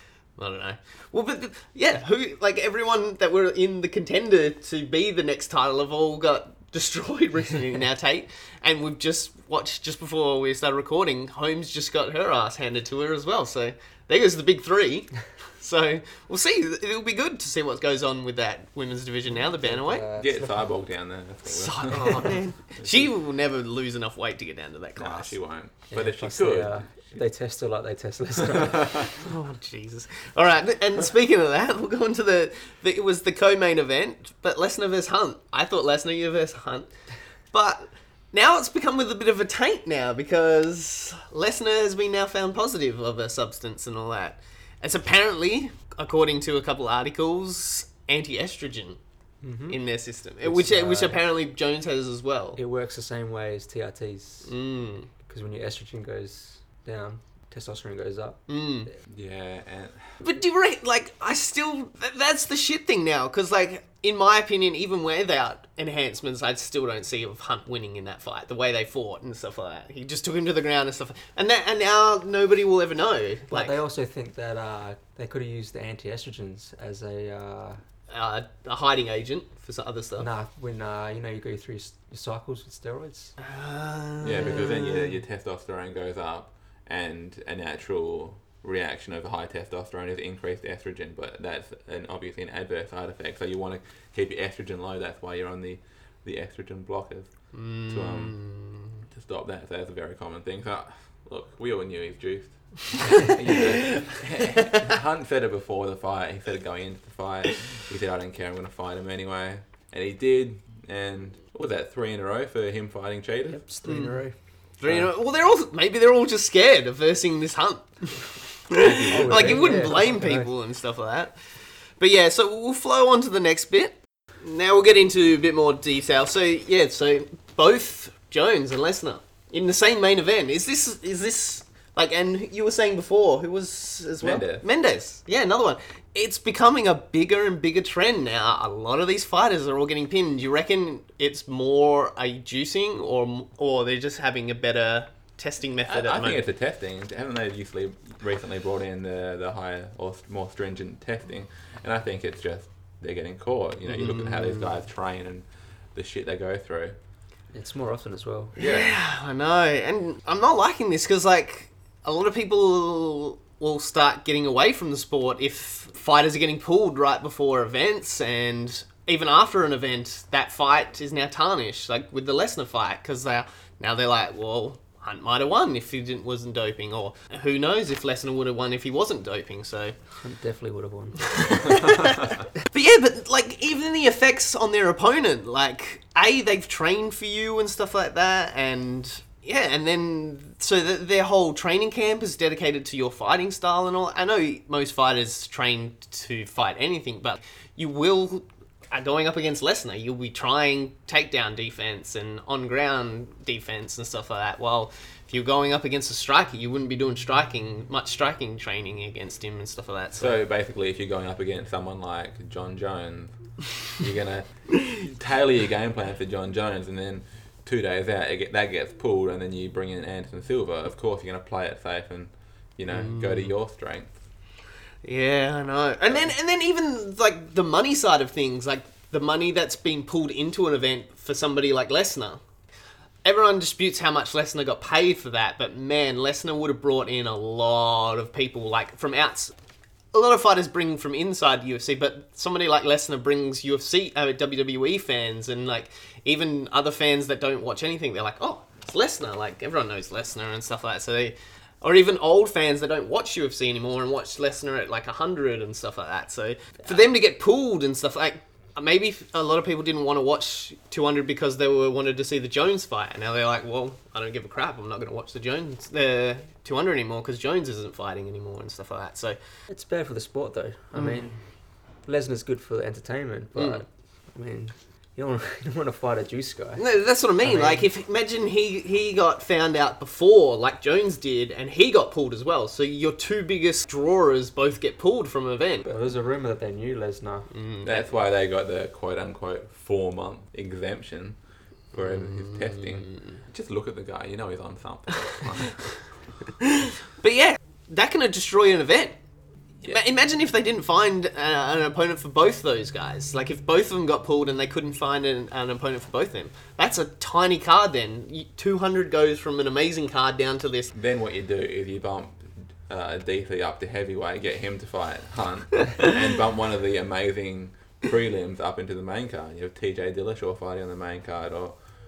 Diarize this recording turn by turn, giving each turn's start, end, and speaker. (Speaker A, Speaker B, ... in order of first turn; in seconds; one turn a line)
Speaker A: 0.4-20.1
Speaker B: 19.4-20.6
Speaker C: 20.2-23.1
Speaker A: 21.5-25.4
Speaker C: 25.0-27.2
Speaker B: 25.9-29.1
Speaker C: 28.5-29.1
Speaker A: 29.1-36.9
Speaker A: 37.5-49.0
Speaker B: 49.4-49.8
Speaker A: 49.7-52.6
Speaker B: 50.4-51.2
Speaker B: 52.5-54.5
Speaker A: 54.4-55.1
Speaker B: 55.2-58.4
Speaker A: 58.5-58.9
Speaker C: 59.1-60.1
Speaker A: 60.2-73.8
Speaker B: 73.5-77.8
Speaker A: 78.1-80.3
Speaker B: 80.2-83.3
Speaker A: 83.4-85.1
Speaker C: 84.2-97.3
Speaker A: 97.5-98.9
Speaker C: 97.9-98.5
Speaker C: 99.1-113.6
Speaker A: 103.0-103.3
Speaker B: 113.5-114.3
Speaker A: 113.8-114.2
Speaker A: 114.8-121.4
Speaker C: 118.8-119.8
Speaker B: 118.9-120.5
Speaker A: 122.0-146.4
Speaker C: 134.2-134.6
Speaker C: 145.8-156.9
Speaker A: 153.9-154.7
Speaker B: 157.5-158.5
Speaker C: 158.6-158.9
Speaker A: 158.6-179.9
Speaker B: 180.2-181.3
Speaker A: 181.2-210.4
Speaker C: 210.2-213.3
Speaker C: 213.9-224.2
Speaker A: 222.9-223.5
Speaker A: 225.0-232.4
Speaker A: 233.2-239.5
Speaker A: 240.1-269.4
Speaker B: 269.7-271.3
Speaker A: 270.9-271.2
Speaker B: 272.1-276.8
Speaker A: 273.6-273.8
Speaker A: 276.8-285.9
Speaker B: 277.4-277.9
Speaker B: 285.9-287.5
Speaker A: 287.5-288.1
Speaker C: 287.8-291.4
Speaker C: 291.9-295.9
Speaker A: 292.0-293.1
Speaker A: 296.6-299.2
Speaker A: 299.8-310.9
Speaker C: 310.9-321.8